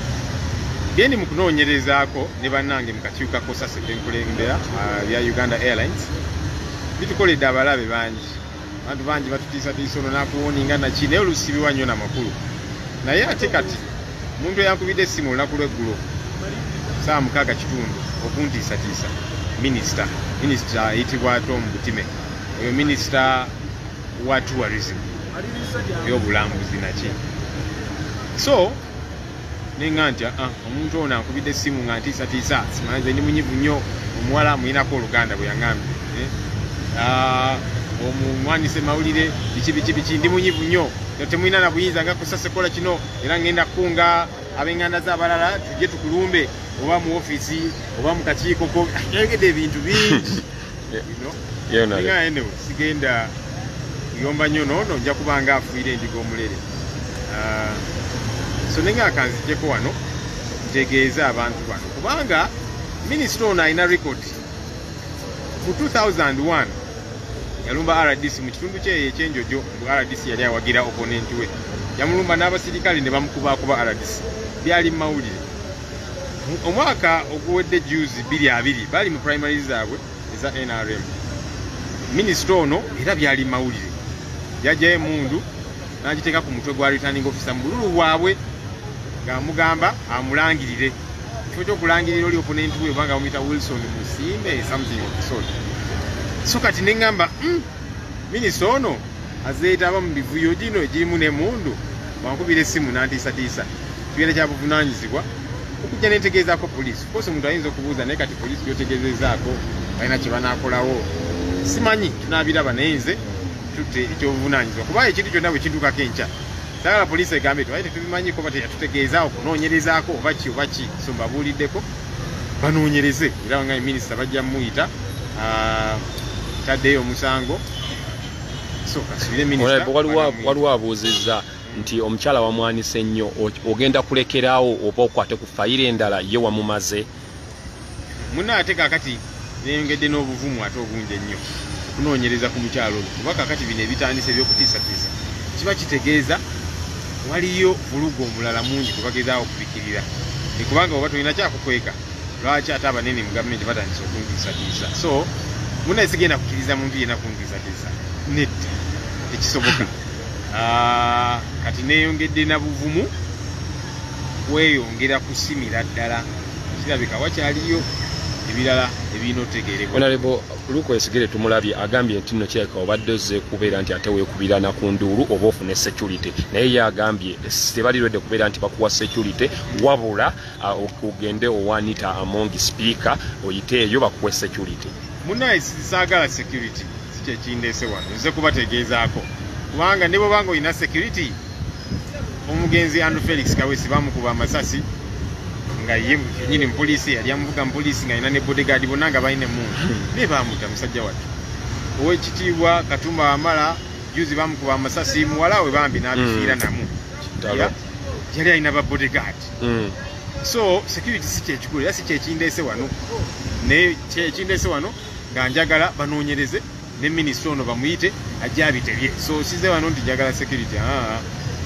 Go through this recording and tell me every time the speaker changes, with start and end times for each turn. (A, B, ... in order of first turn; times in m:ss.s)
0:00.9-0:06.1 A
0:07.0-0:12.4 A
0:13.0-0:16.0 A
0:17.0-0:23.5 A
0:24.2-0:27.2 A
0:28.4-0:28.8 A
0:29.8-0:36.3 A
0:36.9-0:50.4 A
0:50.0-0:51.0 B
0:51.0-0:51.4 A
0:51.7-0:52.2 B
0:51.9-0:53.3 A
0:54.1-0:56.6 A
0:57.3-0:57.8 A
0:58.7-1:00.0 A
1:00.6-1:02.5 A
1:03.0-1:04.4 A
1:05.6-1:06.8 A
1:07.6-1:15.4 A
1:16.4-1:21.1 A
1:22.1-1:24.0 A
1:24.6-1:25.5 A
1:26.0-1:28.4 A
1:29.2-1:31.0 A
1:31.5-1:35.5 A
1:36.4-1:37.7 A
1:38.3-1:45.3 A
1:45.8-1:51.1 A
1:51.6-1:53.2 A
1:53.7-2:01.9 A
2:02.6-2:06.0 A
2:06.6-2:07.6 A
2:08.9-2:10.6 A
2:09.6-2:17.1 B
2:11.6-2:11.9 A
2:18.3-2:26.4 A
2:27.2-2:35.3 A
2:35.8-2:40.0 A
2:40.5-2:43.1 A
2:44.5-2:47.9 A
2:48.5-2:50.2 A
2:49.9-3:05.0 B
3:05.2-3:11.4 A
3:12.5-3:14.8 A
3:15.8-3:21.3 A
3:22.0-3:27.8 A
3:26.1-3:26.6 B
3:27.4-3:27.7 B
3:28.3-3:29.5 A
3:29.6-3:30.0 B
3:30.4-3:33.0 A
3:33.6-3:41.3 A